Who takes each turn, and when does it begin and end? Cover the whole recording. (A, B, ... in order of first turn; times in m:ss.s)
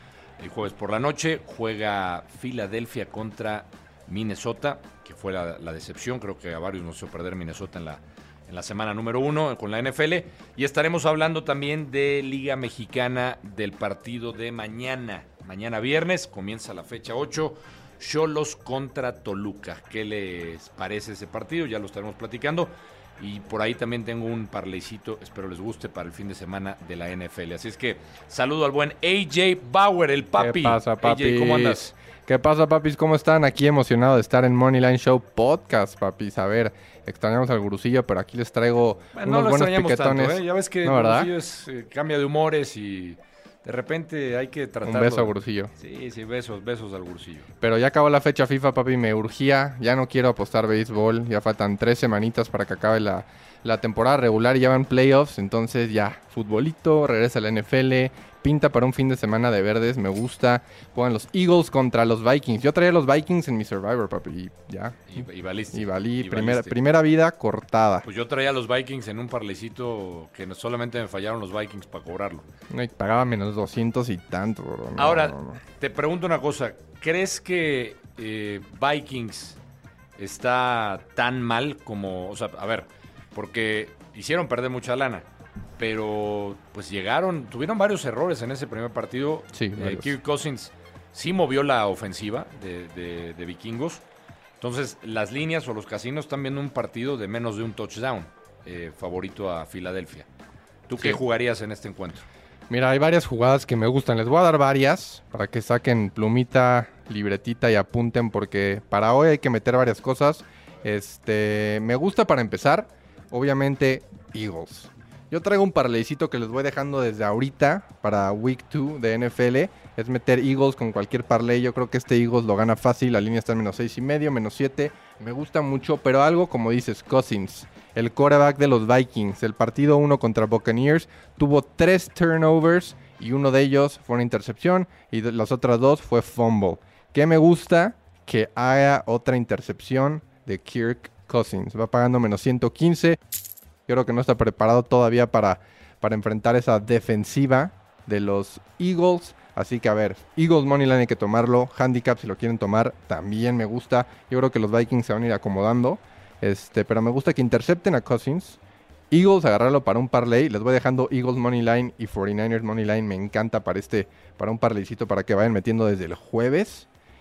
0:00.4-0:31.9 A
0:30.4-0:41.3 B
0:39.1-0:47.5 A
0:44.8-0:45.7 B
0:47.6-1:08.1 B
1:05.1-1:06.8 A
1:08.0-1:12.4 A
1:12.7-1:15.6 B
1:15.0-1:19.6 A
1:20.2-1:25.2 A
1:25.8-1:34.0 A
1:29.5-1:30.1 B
1:34.6-1:40.3 A
1:40.9-1:42.2 A
1:42.7-2:23.2 B
2:23.9-2:38.6 B
2:39.1-2:46.9 B